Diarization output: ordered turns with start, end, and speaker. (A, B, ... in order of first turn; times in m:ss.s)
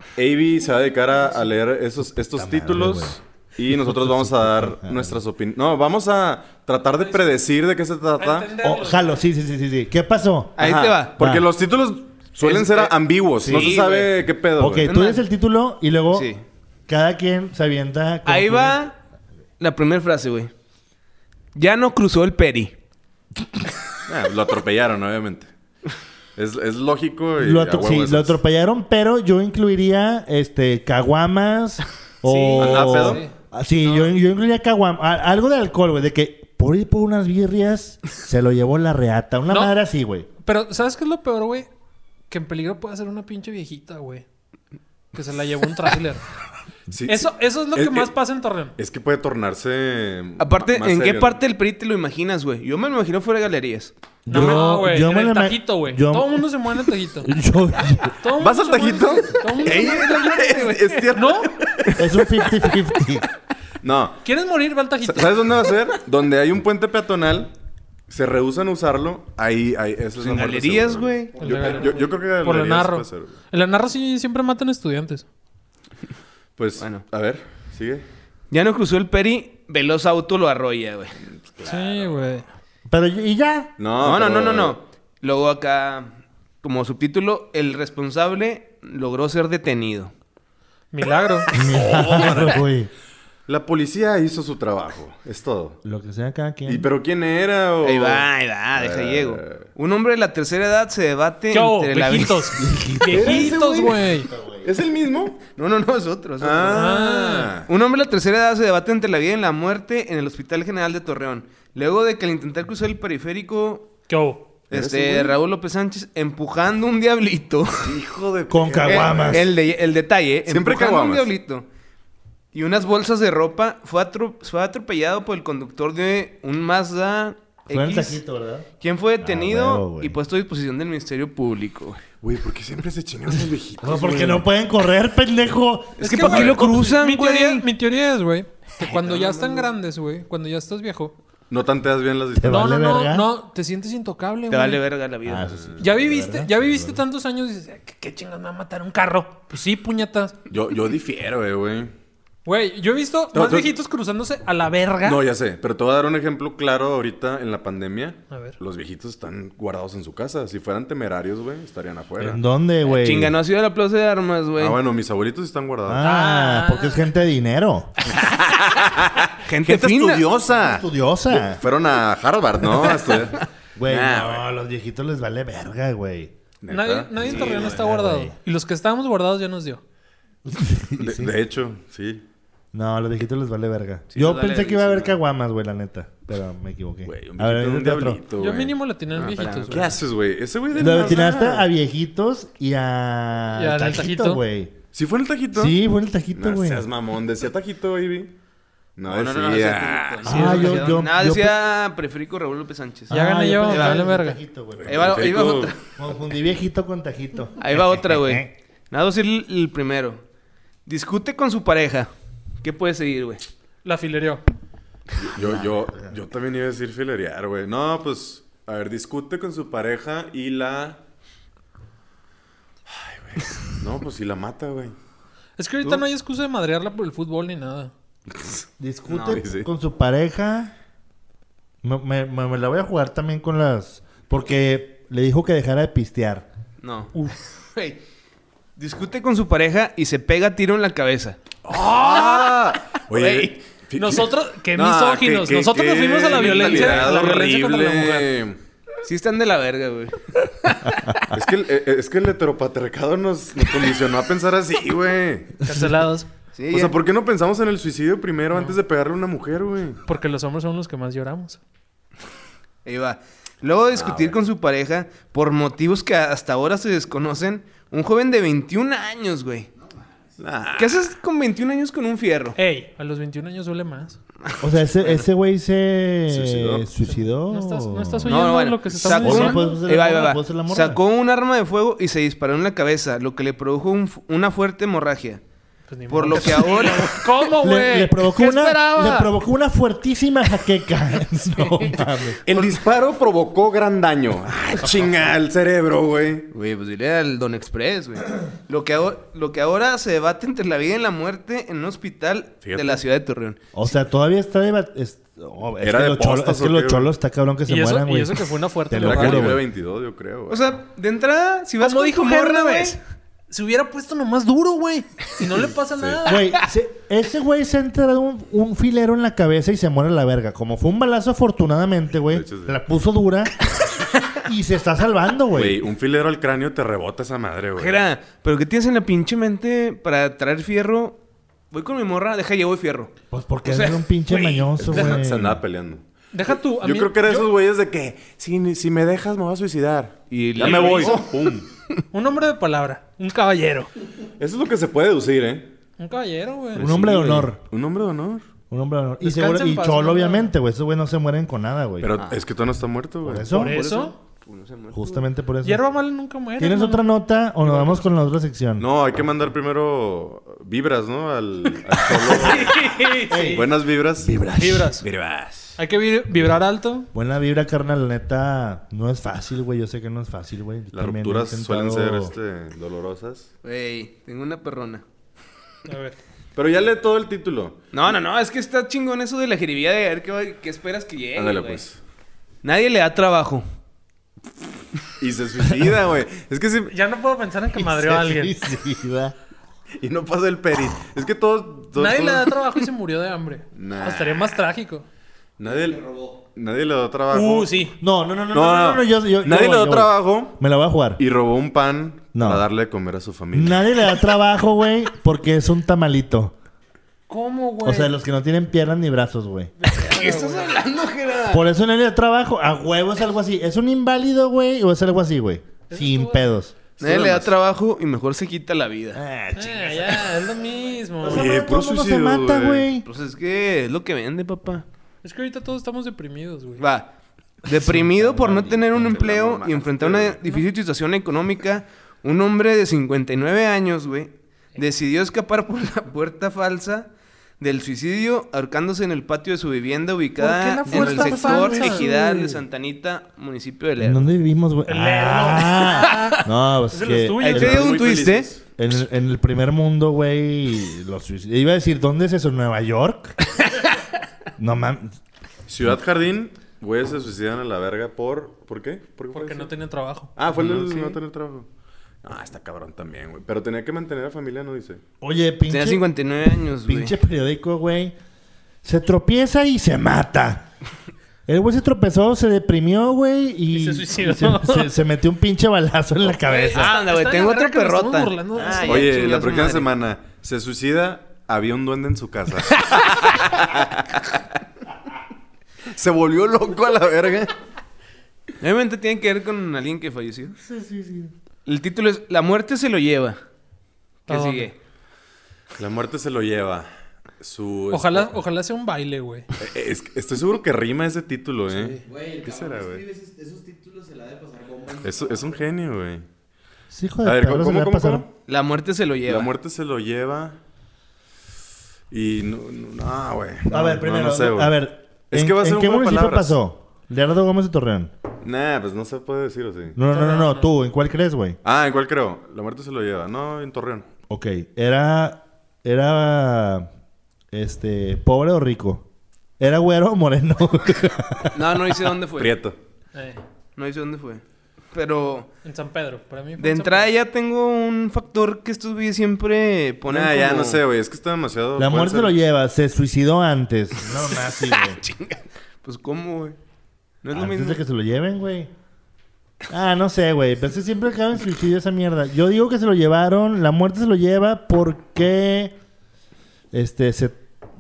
0:00.2-0:08.5 A
0:02.3-0:05.2 B
0:07.0-0:07.3 C
0:08.2-0:09.1 C
0:08.6-0:10.6 B
0:10.6-0:11.1 D
0:10.6-0:14.9 A
0:11.2-0:11.4 B
0:12.4-0:14.1 D
0:13.4-0:13.8 B
0:14.6-0:16.3 B
0:14.8-0:15.2 D
0:16.1-0:16.4 D
0:16.9-0:18.8 B
0:18.2-0:19.0 D
0:19.6-0:20.5 D
0:21.5-0:22.7 D
0:24.1-0:25.5 A
0:26.4-0:28.4 A
0:27.4-0:40.3 B
0:32.2-0:33.3 C
0:32.6-0:33.2 A
0:39.5-0:39.8 C
0:40.4-0:41.7 C
0:42.3-0:44.2 C
0:45.1-0:46.2 C
0:46.9-0:48.1 A
0:47.0-0:48.7 C
0:48.8-0:51.4 A
0:50.4-0:53.9 D
0:54.2-0:56.5 B
0:54.3-0:57.3 C
0:57.2-0:58.2 B
0:58.2-1:01.6 C
0:58.4-1:02.4 A
0:59.6-1:01.0 D
1:02.0-1:03.3 B
1:03.8-1:04.2 A
1:04.2-1:05.4 C
1:05.0-1:07.5 A
1:08.1-1:13.4 A
1:10.2-1:11.9 D
1:11.4-1:15.2 C
1:16.6-1:18.0 A
1:16.8-1:17.0 D
1:18.5-1:21.2 D
1:21.2-1:22.2 A
1:21.6-1:22.5 C
1:22.9-1:23.7 B
1:23.8-1:24.8 A
1:24.0-1:30.1 D
1:30.9-1:31.5 C
1:31.5-1:32.3 D
1:31.5-1:32.9 B
1:31.7-1:32.6 A
1:33.5-1:35.8 A
1:35.8-1:36.9 B
1:36.6-1:39.7 A
1:37.8-1:42.6 D
1:41.5-1:44.3 C
1:42.6-1:44.7 B
1:43.1-1:44.1 A
1:44.6-1:45.4 A
1:45.4-1:46.9 D
1:46.4-1:47.7 A
1:46.7-1:47.5 C
1:47.7-1:53.9 D
1:54.1-1:54.5 C
1:54.7-1:58.0 D
1:54.7-1:55.4 A
1:57.8-1:59.5 A
1:58.5-1:59.5 B
1:58.8-2:01.6 D
2:00.4-2:01.3 A
2:02.5-2:08.2 D
2:07.7-2:08.7 B
2:08.8-2:12.0 D
2:09.2-2:10.2 B
2:12.2-2:14.4 A
2:13.8-2:16.6 B
2:16.0-2:17.6 D
2:16.0-2:21.2 C
2:18.8-2:19.7 D
2:21.5-2:22.7 A
2:22.4-2:23.3 B
2:22.5-2:24.8 C
2:24.5-2:25.5 D
2:25.2-2:27.0 B
2:25.5-2:25.8 A
2:25.8-2:30.4 C
2:30.5-2:31.9 A
2:32.4-2:35.2 C
2:33.3-2:33.7 A
2:35.0-2:42.4 A
2:38.3-2:38.6 C
2:42.2-2:43.4 B
2:42.8-2:44.8 D
2:44.6-2:46.0 A
2:45.9-2:47.9 B
2:46.0-2:47.1 C
2:48.2-2:54.4 A
2:49.4-2:50.3 D
2:50.5-2:51.6 B
2:53.8-2:56.3 B
2:56.6-2:57.7 A
2:56.7-2:59.8 C
2:57.2-2:57.7 D
2:57.2-2:58.3 B
3:00.4-3:01.3 B
3:01.0-3:02.2 A
3:02.7-3:08.2 B
3:04.1-3:05.2 D
3:07.0-3:08.7 A
3:08.4-3:09.9 C
3:09.1-3:09.9 D
3:09.7-3:11.7 A
3:10.8-3:14.8 B
3:13.6-3:14.4 C
3:14.9-3:15.8 A
3:15.5-3:16.8 B
3:16.3-3:18.3 A
3:19.0-3:20.8 A
3:19.1-3:24.0 D
3:20.2-3:21.6 B
3:23.1-3:25.2 B
3:23.1-3:24.4 C
3:24.8-3:25.8 A
3:24.9-3:25.8 D
3:26.0-3:28.5 B
3:27.6-3:30.2 D
3:30.8-3:32.1 D
3:32.6-3:33.4 D
3:33.8-3:34.4 C
3:35.2-3:41.0 A
3:42.9-3:44.9 A
3:45.6-3:47.9 C
3:48.8-3:50.7 B
3:49.1-3:49.4 D
3:49.2-3:49.7 A
3:51.8-3:56.4 B
3:56.8-3:58.0 D
3:58.8-4:02.6 D
4:01.6-4:08.6 A
4:03.1-4:03.5 D
4:03.9-4:08.3 C
4:06.3-4:07.4 D
4:09.0-4:11.2 D
4:11.3-4:15.6 A
4:15.6-4:16.3 C
4:15.7-4:15.9 B
4:16.5-4:17.0 D
4:16.7-4:20.0 A
4:20.1-4:21.6 C
4:22.8-4:29.7 D
4:23.9-4:24.4 A
4:30.4-4:31.1 A
4:30.7-4:32.6 D
4:32.6-4:34.2 C
4:34.4-4:35.2 D
4:34.6-4:41.0 B
4:36.3-4:36.9 A
4:37.0-4:39.7 C
4:38.2-4:45.4 D
4:45.9-4:49.3 C
4:46.1-4:47.5 D
4:46.4-4:46.7 B
4:47.6-4:52.4 B
4:52.4-4:56.5 A
4:56.5-5:03.6 D
5:02.6-5:03.0 A
5:03.7-5:09.6 B
5:05.8-5:07.1 A
5:07.7-5:09.5 C
5:09.0-5:10.6 A
5:10.5-5:13.0 D
5:11.8-5:13.0 C
5:13.5-5:16.6 C
5:16.0-5:16.2 A
5:16.2-5:23.6 B
5:22.3-5:22.7 A
5:24.4-5:25.8 B
5:25.5-5:28.0 A
5:27.8-5:31.2 D
5:31.7-5:33.1 D
5:33.3-5:35.6 B
5:33.6-5:34.7 D
5:34.8-5:41.6 A
5:36.3-5:37.5 C
5:40.3-5:41.5 D
5:40.6-5:41.1 C
5:42.1-5:43.9 C
5:44.4-5:45.7 A
5:46.0-5:46.8 C
5:46.7-5:48.4 A
5:46.8-5:47.6 B
5:48.7-5:52.1 B
5:49.2-5:50.5 C
5:52.0-5:53.5 A
5:53.2-5:53.8 B
5:53.5-5:54.1 C
5:53.5-5:55.2 D
5:54.9-5:55.8 B
5:55.6-5:57.0 C
5:56.6-5:58.9 B
5:57.6-5:58.0 C
5:58.8-6:04.4 A
6:02.1-6:03.6 C
6:03.2-6:05.0 B
6:04.6-6:05.0 C
6:05.0-6:05.8 A
6:05.8-6:07.1 C
6:07.1-6:12.3 B
6:10.9-6:13.5 A
6:13.6-6:15.0 D
6:15.8-6:16.2 C
6:16.5-6:17.8 A
6:17.9-6:21.8 D
6:21.4-6:22.0 A
6:22.6-6:23.6 D
6:25.2-6:26.9 A
6:26.9-6:28.6 C
6:27.7-6:29.3 B
6:30.0-6:32.6 A
6:31.9-6:35.0 C
6:33.8-6:34.5 A
6:35.6-6:36.0 A
6:35.7-6:36.4 E
6:36.5-6:37.7 A
6:37.3-6:38.0 C
6:38.0-6:41.2 B
6:38.5-6:40.6 A
6:41.2-6:43.8 A
6:42.3-6:42.6 B
6:43.5-6:46.5 B
6:47.3-6:48.1 C
6:47.8-6:49.7 B
6:49.8-6:50.8 C
6:49.9-6:51.6 D
6:51.5-6:56.7 B
6:55.9-6:56.5 C
6:57.0-6:57.5 A
6:57.0-6:59.2 D
6:59.1-7:00.4 B
6:59.6-7:01.5 C
7:01.2-7:03.0 B
7:01.2-7:02.9 A
7:03.0-7:04.8 D
7:05.2-7:06.8 C
7:06.8-7:07.1 D
7:07.6-7:24.3 D
7:07.6-7:09.2 B
7:08.9-7:10.4 A
7:20.4-7:22.5 C
7:21.1-7:22.2 B
7:24.0-7:28.0 B
7:24.9-7:27.8 C
7:27.4-7:28.5 D
7:27.5-7:28.6 A
7:28.8-7:33.4 B
7:34.6-7:35.2 B
7:35.7-7:39.7 A
7:39.3-7:40.3 C
7:40.4-7:41.7 A
7:40.5-7:41.2 D
7:42.2-7:45.0 A
7:45.2-7:46.0 B
7:45.7-7:47.1 D
7:46.6-7:48.1 B
7:48.8-7:50.7 B
7:51.5-7:56.9 B
7:53.7-7:55.0 C
7:56.4-7:59.3 C
7:56.7-7:59.9 D
7:58.6-8:04.0 A
8:02.7-8:03.4 D
8:05.9-8:07.5 A
8:08.6-8:10.5 D
8:10.6-8:11.3 B
8:11.6-8:13.4 D
8:14.3-8:14.7 D
8:14.3-8:14.7 C
8:15.8-8:16.9 A
8:17.4-8:18.3 A
8:17.9-8:19.5 C
8:19.6-8:23.0 A
8:21.7-8:22.0 C
8:22.1-8:25.4 E
8:25.0-8:26.2 A
8:26.9-8:28.3 B
8:27.2-8:28.3 A
8:28.5-8:29.5 D
8:29.2-8:30.6 A
8:32.1-8:34.7 A
8:33.7-8:38.1 B
8:35.3-8:36.6 A
8:38.4-8:40.0 A
8:39.9-8:41.6 B
8:40.1-8:40.7 C
8:41.6-8:44.0 A
8:44.3-8:46.9 B
8:47.5-8:49.0 B
8:49.6-8:51.8 B
8:51.5-8:52.5 D
8:52.3-8:52.8 A
8:53.1-8:53.4 C
8:53.8-8:55.5 D
8:55.6-8:57.1 C
8:56.6-9:00.8 D
9:00.0-9:02.3 A
9:01.8-9:05.0 B
9:04.5-9:06.6 D
9:07.2-9:07.8 D
9:07.3-9:08.7 B
9:09.7-9:15.8 B
9:16.7-9:17.4 B